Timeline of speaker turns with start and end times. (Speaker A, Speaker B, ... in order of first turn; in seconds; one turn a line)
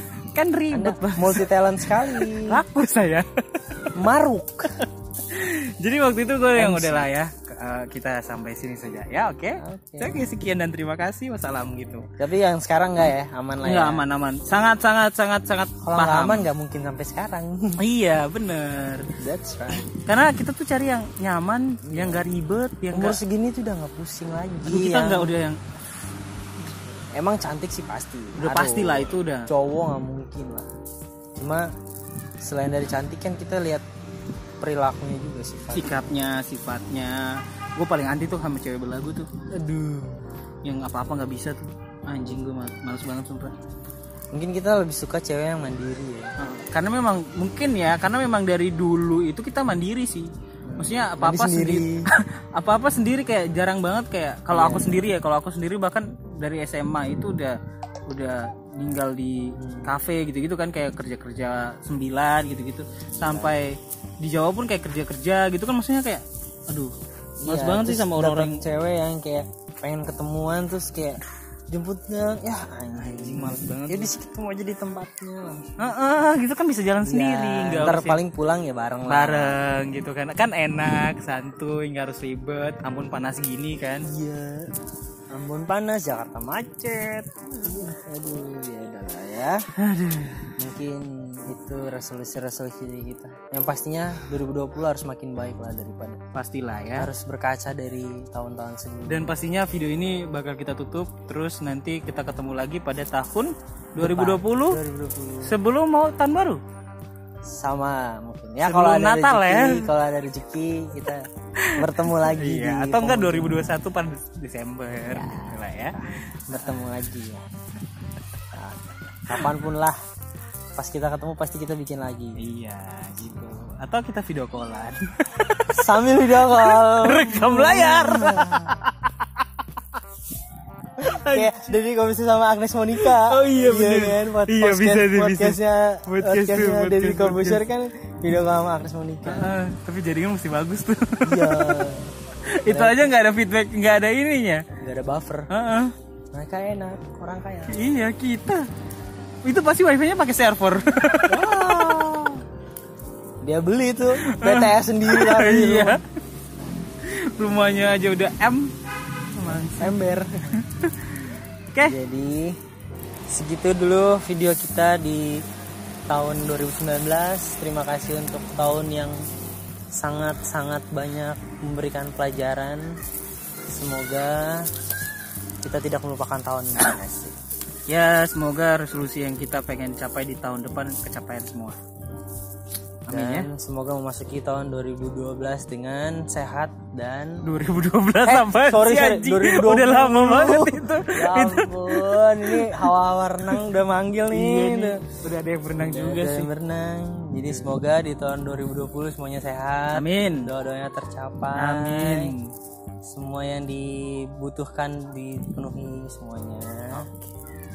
Speaker A: 0.3-3.9
Speaker B: 0.7-2.6
Speaker B: 3.9-4.8
Speaker A: 4.8-12.1
Speaker B: 6.5-7.1
Speaker B: 9.6-10.2
Speaker B: 12.1-14.0
Speaker A: 13.6-16.5
Speaker B: 15.8-17.8
Speaker A: 17.8-19.1
Speaker B: 19.2-19.9
Speaker A: 19.7-23.2
Speaker B: 21.8-22.2
Speaker B: 22.9-25.4
Speaker A: 24.6-25.6
Speaker B: 27.1-30.7
Speaker A: 28.4-29.5
Speaker B: 31.4-31.7
Speaker B: 32.4-33.8
Speaker B: 34.6-36.0
Speaker A: 35.7-39.3
Speaker B: 39.5-40.2
Speaker A: 40.6-43.5
Speaker B: 44.3-46.3
Speaker A: 46.4-66.9
Speaker B: 50.6-52.1
Speaker B: 54.5-55.1
Speaker B: 59.6-59.9
Speaker B: 63.1-63.5
Speaker B: 67.4-75.7
Speaker A: 67.5-68.6
Speaker A: 73.0-74.1
Speaker A: 75.8-78.2
Speaker B: 77.0-79.6
Speaker A: 79.1-84.1
Speaker B: 84.0-84.7
Speaker B: 85.3-89.7
Speaker A: 89.8-90.5
Speaker B: 90.5-96.2
Speaker A: 96.3-97.1
Speaker B: 97.0-99.3
Speaker A: 99.0-104.8
Speaker B: 104.0-105.5
Speaker A: 105.4-106.6
Speaker B: 107.4-113.7
Speaker A: 108.6-109.9
Speaker A: 111.6-116.6
Speaker B: 115.0-117.4
Speaker B: 118.5-120.0
Speaker B: 120.7-122.4
Speaker A: 122.4-129.1
Speaker B: 125.7-128.8
Speaker A: 131.0-131.7
Speaker B: 131.0-139.5
Speaker A: 133.0-137.6
Speaker A: 139.2-144.7
Speaker B: 141.2-142.1
Speaker B: 142.7-143.1
Speaker B: 144.8-145.5
Speaker A: 145.5-145.9
Speaker B: 146.3-147.8
Speaker A: 147.7-148.7
Speaker A: 149.4-152.4
Speaker B: 151.3-151.9
Speaker B: 153.4-156.0
Speaker A: 154.2-156.0
Speaker A: 157.0-158.7
Speaker A: 159.3-160.0
Speaker B: 159.5-160.6
Speaker A: 160.5-161.9
Speaker B: 161.8-162.6
Speaker B: 163.3-165.4
Speaker B: 166.1-169.2
Speaker B: 169.9-173.0
Speaker B: 173.7-174.7
Speaker B: 175.6-177.3
Speaker A: 177.9-181.8
Speaker A: 183.1-183.5
Speaker B: 183.1-187.4
Speaker A: 187.4-192.9
Speaker B: 188.2-195.0
Speaker A: 194.3-196.5
Speaker B: 195.7-202.3
Speaker A: 199.9-200.5
Speaker A: 201.5-202.5
Speaker B: 203.0-207.2